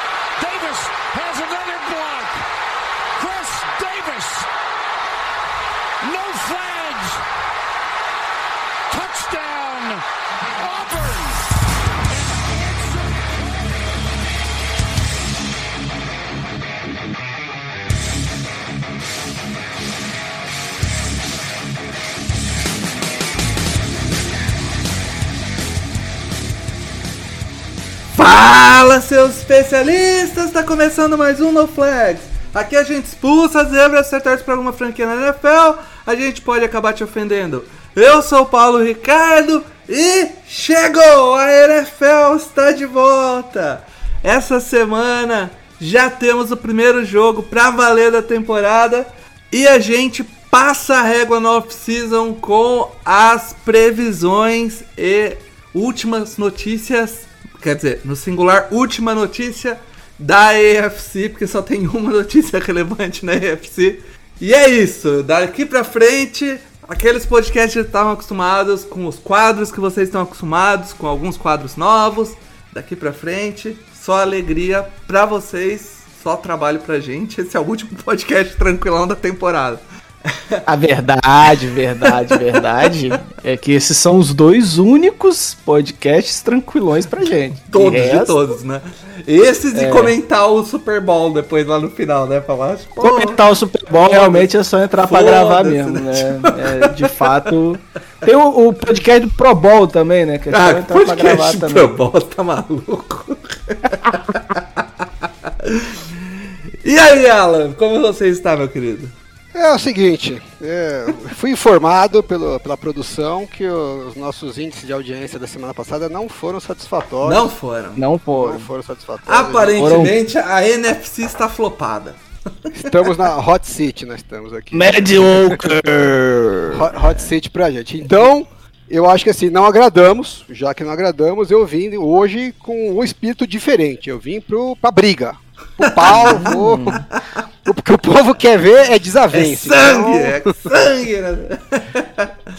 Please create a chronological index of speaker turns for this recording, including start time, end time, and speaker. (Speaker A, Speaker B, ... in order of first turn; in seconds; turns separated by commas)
Speaker A: 0.4-2.5, Speaker A: 3.2-4.5, Speaker A: 6.0-7.3, Speaker A: 8.9-13.9, Speaker B: 28.1-80.6, Speaker C: 80.7-88.4, Speaker B: 82.0-82.9, Speaker B: 87.7-93.4, Speaker C: 89.7-90.2, Speaker C: 93.0-101.9, Speaker B: 94.0-97.5, Speaker B: 100.5-106.1, Speaker B: 106.8-109.1, Speaker D: 109.5-117.5, Speaker B: 117.2-118.0, Speaker C: 118.0-118.7, Speaker D: 118.4-120.0, Speaker B: 119.2-122.2, Speaker C: 119.8-120.2, Speaker D: 122.8-125.8, Speaker C: 124.7-126.6, Speaker D: 126.6-137.0, Speaker B: 135.8-137.1, Speaker C: 136.2-137.0, Speaker D: 137.6-140.5, Speaker B: 139.3-142.3